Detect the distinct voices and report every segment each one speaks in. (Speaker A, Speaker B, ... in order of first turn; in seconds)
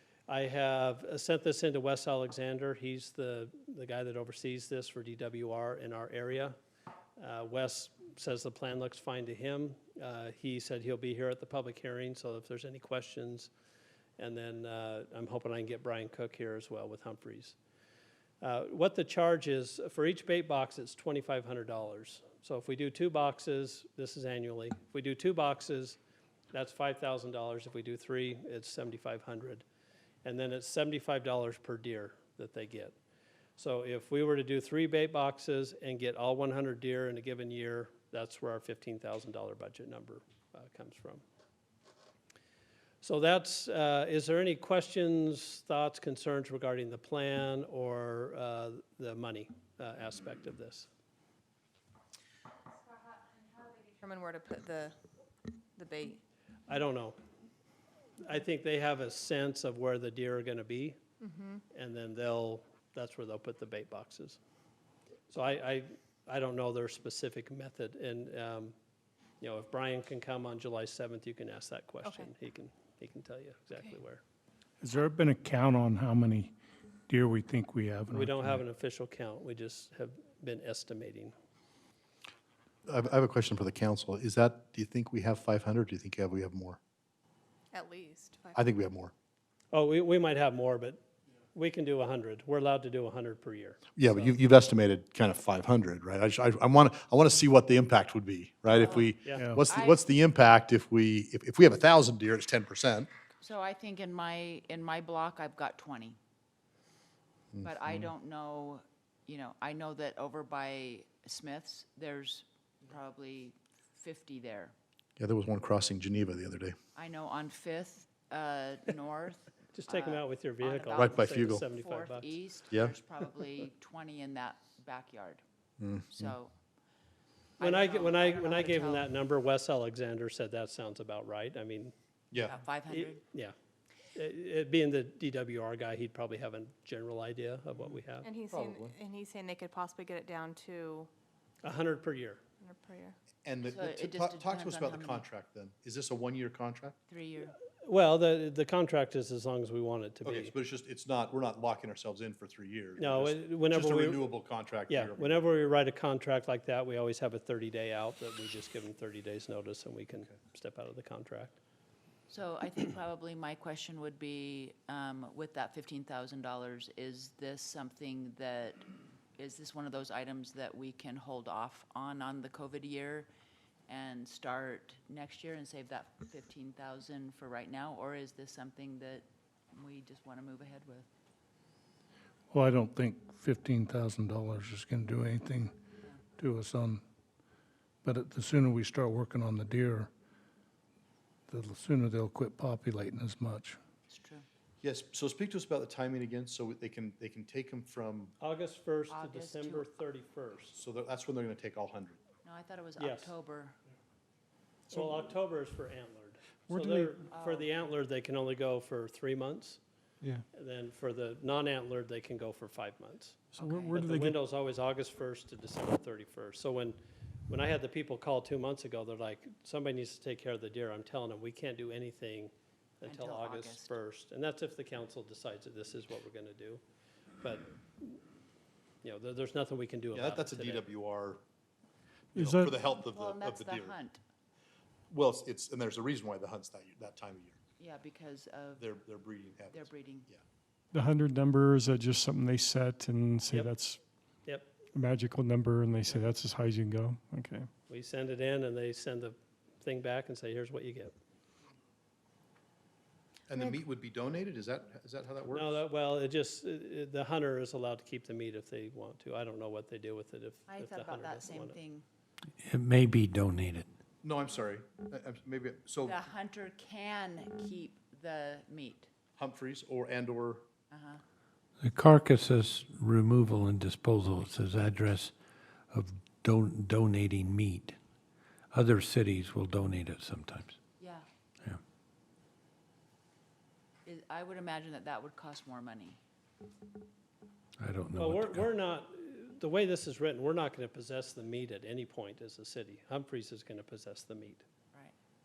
Speaker A: 0.3-6.6, 7.2-13.5, 14.2-17.6, 18.4-26.0, 26.5-29.6, 30.2-33.0, 33.6-41.2, 43.0-50.9, 56.7-57.2, 58.2-61.0, 61.7-64.4, 65.3-68.7, 69.4-74.2, 78.1-81.3, 89.7-91.0, 91.5-94.3, 98.8-99.5, 119.7-122.3, 127.6-131.9, 132.9-133.6, 134.1-138.3, 141.6-142.4, 147.8-150.5, 153.0-154.2, 154.9-161.6, 198.4-200.8, 203.0-203.3, 204.9-209.8, 210.5-217.0, 217.5-226.8, 227.4-228.2, 229.0-230.8, 247.9-251.2, 255.5-261.8, 288.2-294.6
Speaker B: 53.1-55.0, 55.8-56.2, 61.2-61.6, 72.0-72.3, 87.7-88.6, 138.2-141.1, 142.6-143.2
Speaker C: 74.8-76.5, 77.1-78.6, 182.5-185.8, 186.4-187.0, 188.0-190.1, 191.5-193.8
Speaker D: 82.9-86.8, 88.5-89.1, 94.0-103.1, 107.5-108.1, 115.2-116.7, 121.0-121.7, 125.8-126.3, 132.3-132.6, 138.5-139.0, 143.4-147.0, 150.2-155.4, 194.8-198.3, 200.7-202.2, 230.1-231.4, 232.3-234.0, 235.1-237.6, 238.8-240.4, 253.5-255.8, 264.2-266.2, 269.4-270.6
Speaker E: 99.7-100.0, 103.4-106.2, 107.6-114.8, 117.0-125.4, 126.1-126.5, 127.6-129.1, 132.4-133.2, 143.7-145.3, 147.1-147.6, 162.3-173.3, 173.9-181.1, 194.1-194.5, 199.1-199.9, 202.4-203.8, 207.3-207.9, 213.6-213.9, 223.0-224.0, 233.0-234.2, 237.8-238.9, 239.7-240.3, 260.7-262.1, 266.0-269.1, 270.9-271.2, 281.0-281.3, 284.1-286.2
Speaker F: 206.8-207.1, 213.8-214.3, 240.9-244.0, 245.1-247.5
Speaker G: 262.6-263.9, 271.8-275.3, 275.9-278.0, 278.7-280.8, 287.8-288.7